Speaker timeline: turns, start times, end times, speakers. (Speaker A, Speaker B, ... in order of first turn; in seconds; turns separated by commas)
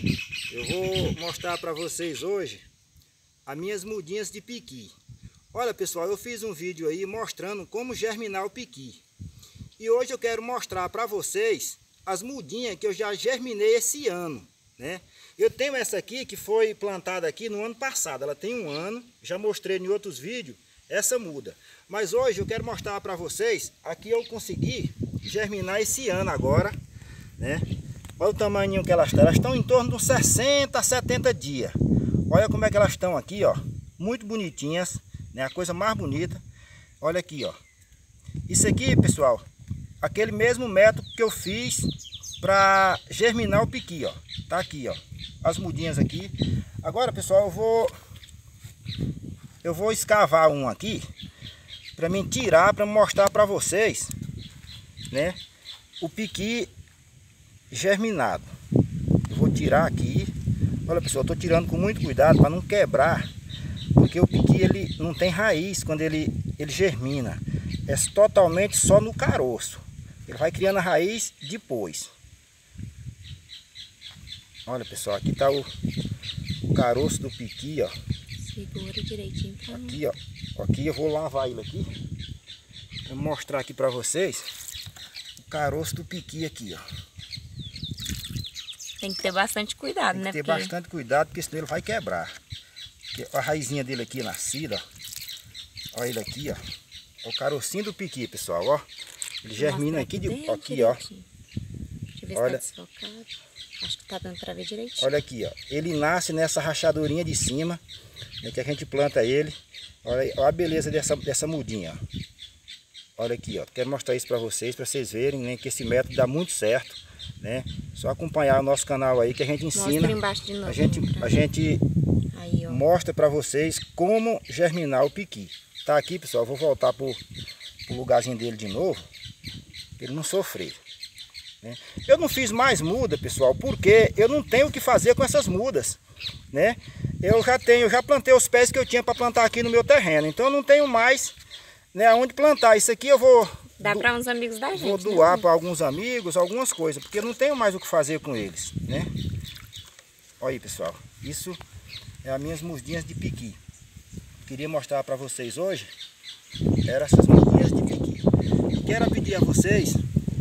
Speaker A: 0.5-2.6, Speaker A: 3.5-4.9, Speaker A: 5.5-9.0, Speaker A: 9.8-26.8, Speaker A: 27.4-27.6, Speaker A: 28.2-31.8, Speaker A: 32.3-36.4, Speaker A: 37.0-37.6, Speaker A: 38.5-39.4, Speaker A: 40.0-47.9, Speaker A: 49.6-51.0, Speaker A: 52.0-54.1, Speaker A: 55.1-55.4, Speaker A: 56.0-56.7, Speaker A: 57.7-58.5, Speaker A: 59.3-60.3, Speaker A: 60.9-63.3, Speaker A: 63.9-72.1, Speaker A: 74.7-75.7, Speaker A: 76.7-77.9, Speaker B: 78.4-80.0, Speaker A: 79.7-81.9, Speaker A: 83.1-84.4, Speaker A: 85.4-86.8, Speaker B: 89.0-90.7, Speaker A: 90.1-92.3, Speaker A: 93.1-94.8, Speaker A: 95.9-96.6, Speaker A: 97.2-98.8, Speaker A: 99.4-101.0, Speaker B: 99.5-101.3, Speaker B: 102.2-105.1, Speaker A: 102.3-102.6, Speaker A: 105.0-107.8, Speaker A: 108.4-112.0, Speaker A: 113.2-121.8, Speaker B: 119.7-121.4, Speaker B: 122.3-122.8, Speaker A: 122.7-127.2, Speaker A: 127.9-129.0, Speaker A: 130.0-130.8, Speaker A: 131.6-136.0, Speaker A: 136.5-141.3, Speaker A: 141.9-144.1, Speaker B: 143.8-145.4, Speaker A: 144.7-149.1, Speaker A: 150.4-151.6, Speaker A: 152.2-153.6, Speaker A: 154.4-155.9, Speaker A: 156.8-160.0